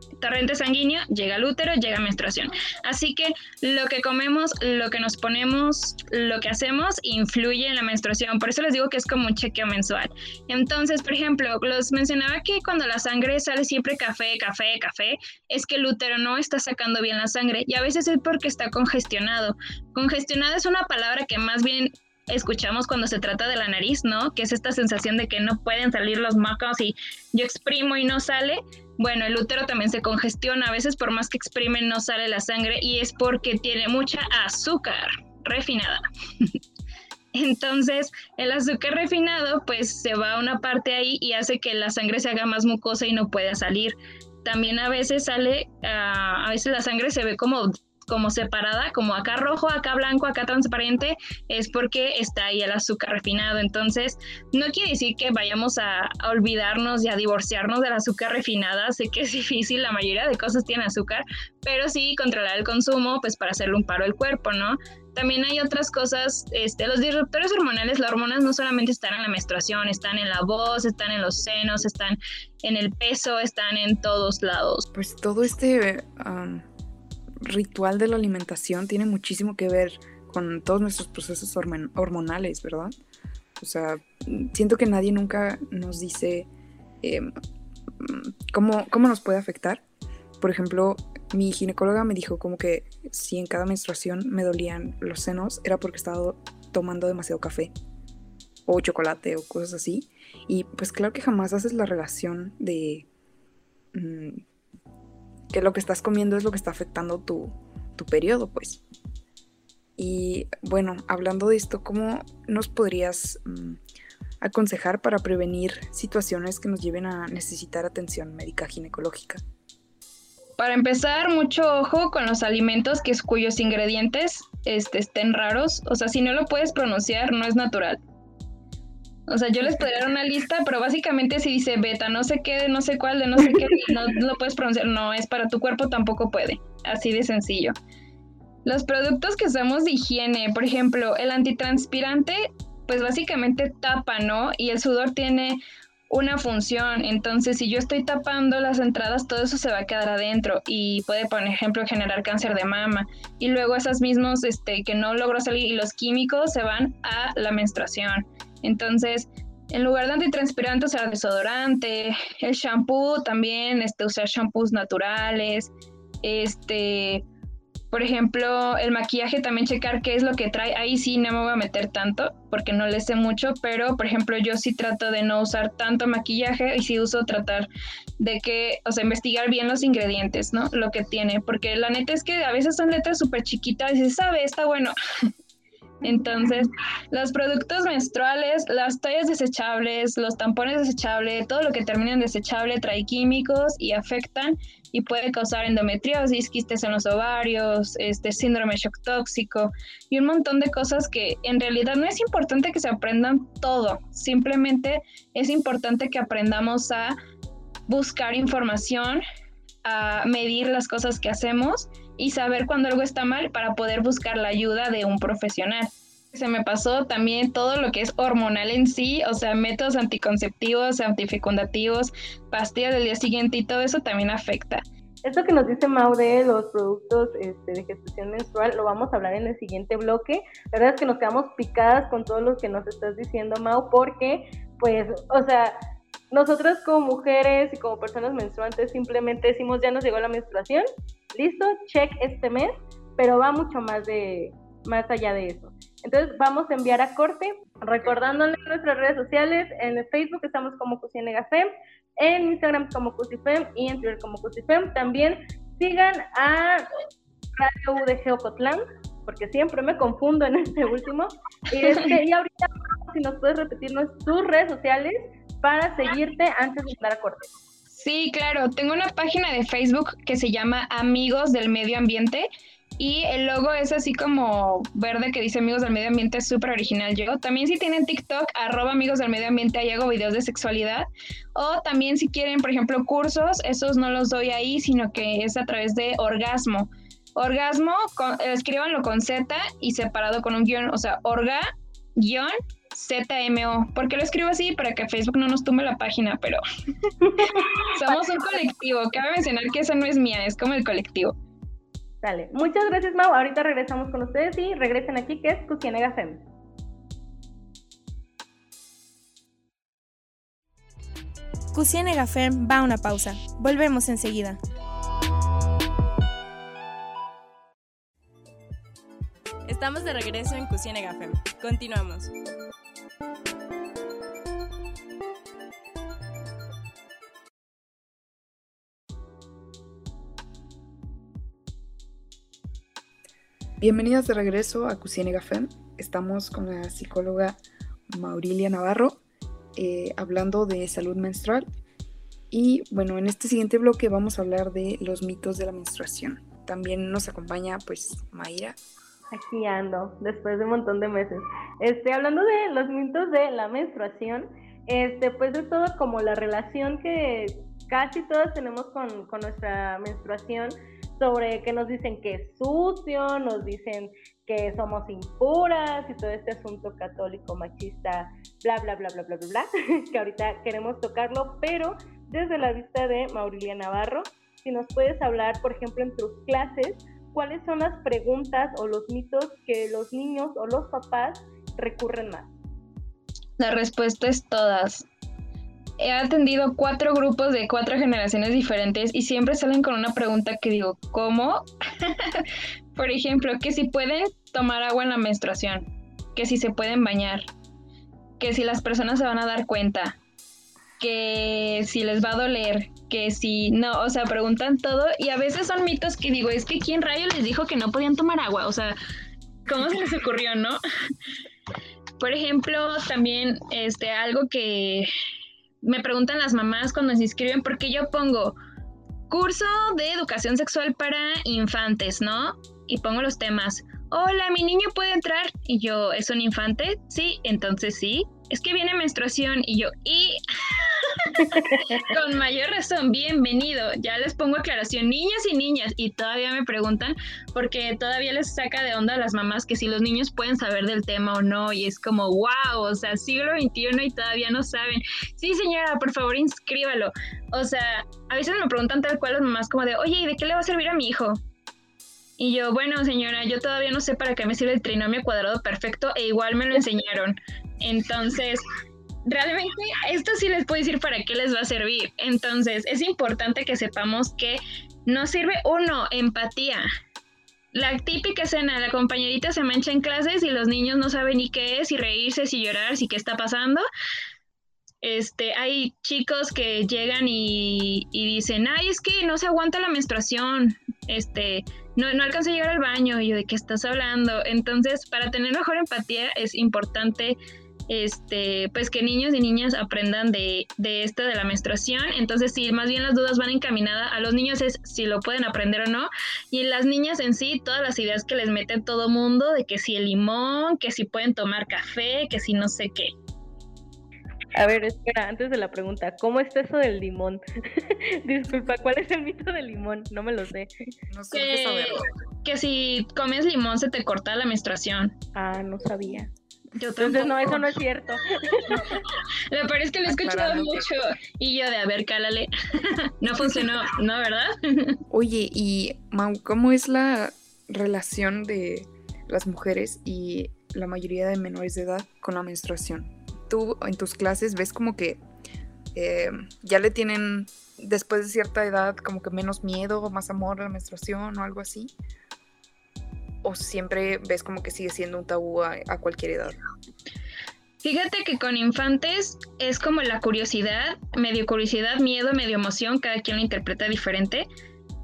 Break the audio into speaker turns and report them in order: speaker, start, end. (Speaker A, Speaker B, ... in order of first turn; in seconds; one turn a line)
Speaker A: 0.2-36.5
Speaker A: 37.3-74.8
Speaker B: 74.9-76.7
Speaker B: 77.4-82.9
Speaker B: 83.6-86.5
Speaker B: 87.0-87.3
Speaker B: 88.0-89.8
Speaker B: 90.4-97.7
Speaker B: 98.7-103.1
Speaker B: 103.9-104.4
Speaker B: 105.5-108.8
Speaker B: 110.0-113.8
Speaker B: 114.4-119.4
Speaker A: 120.6-128.0
Speaker A: 129.3-137.7
Speaker A: 138.6-165.7
Speaker A: 166.2-167.2
Speaker A: 167.9-177.7
Speaker A: 178.2-184.9
Speaker A: 186.0-207.2
Speaker A: 207.9-209.2
Speaker A: 209.8-224.8
Speaker C: 225.2-235.7
Speaker C: 236.3-256.9
Speaker C: 257.6-267.5
Speaker A: 267.9-272.5
Speaker A: 273.0-296.6
Speaker C: 297.2-297.9
Speaker A: 297.4-301.3
Speaker C: 302.2-306.4
Speaker D: 311.7-314.6
Speaker D: 319.6-322.3
Speaker B: 333.8-339.2
Speaker B: 339.7-341.7
Speaker B: 342.5-348.8
Speaker C: 349.3-382.5
Speaker A: 383.6-385.1
Speaker A: 386.0-397.4
Speaker A: 398.4-400.2
Speaker A: 401.0-408.9
Speaker A: 409.6-410.8
Speaker A: 412.2-415.1
Speaker A: 415.8-418.6
Speaker A: 419.3-451.4
Speaker A: 452.4-458.6
Speaker A: 459.2-466.9
Speaker A: 467.7-473.8
Speaker A: 475.0-487.4
Speaker A: 487.9-503.1
Speaker C: 504.5-510.7
Speaker B: 511.1-512.0
Speaker A: 511.3-515.1
Speaker C: 515.3-516.3
Speaker A: 516.8-517.6
Speaker C: 517.0-519.0
Speaker A: 518.7-525.0
Speaker B: 520.1-520.8
Speaker B: 525.1-535.2
Speaker B: 535.9-541.9
Speaker B: 543.4-546.6
Speaker A: 547.8-554.5